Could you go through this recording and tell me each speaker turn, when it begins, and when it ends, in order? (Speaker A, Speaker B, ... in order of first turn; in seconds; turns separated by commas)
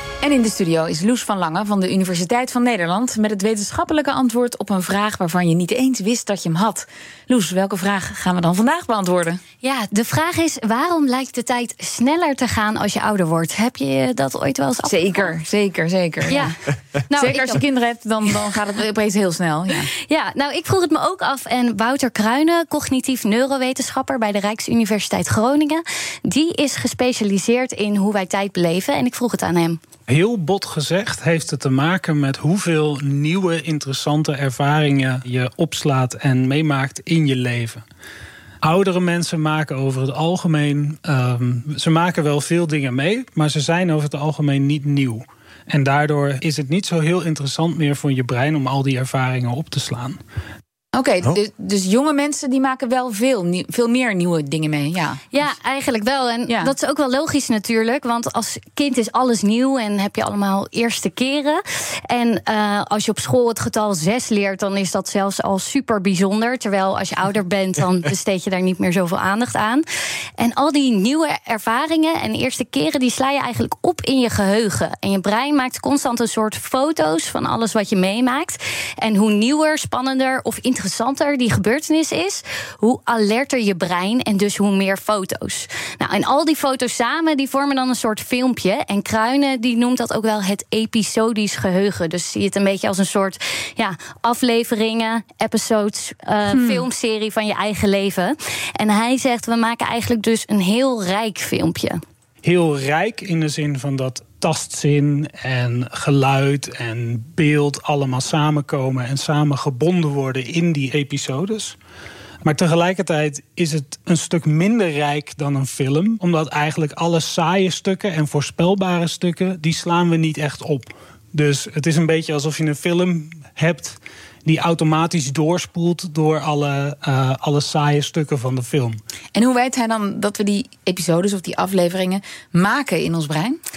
Speaker A: 0.2-9.4, Speaker B: 9.6-15.3, Speaker A: 14.9-16.5, Speaker B: 16.3-16.6, Speaker B: 17.1-17.6, Speaker A: 17.1-19.9, Speaker B: 20.0-29.8, Speaker C: 30.1-37.8, Speaker C: 38.6-50.2, Speaker A: 50.9-55.4, Speaker B: 55.3-69.8, Speaker A: 56.5-56.7, Speaker B: 70.4-102.0, Speaker A: 96.5-96.8, Speaker C: 102.4-111.8, Speaker C: 112.4-129.0, Speaker A: 129.3-133.6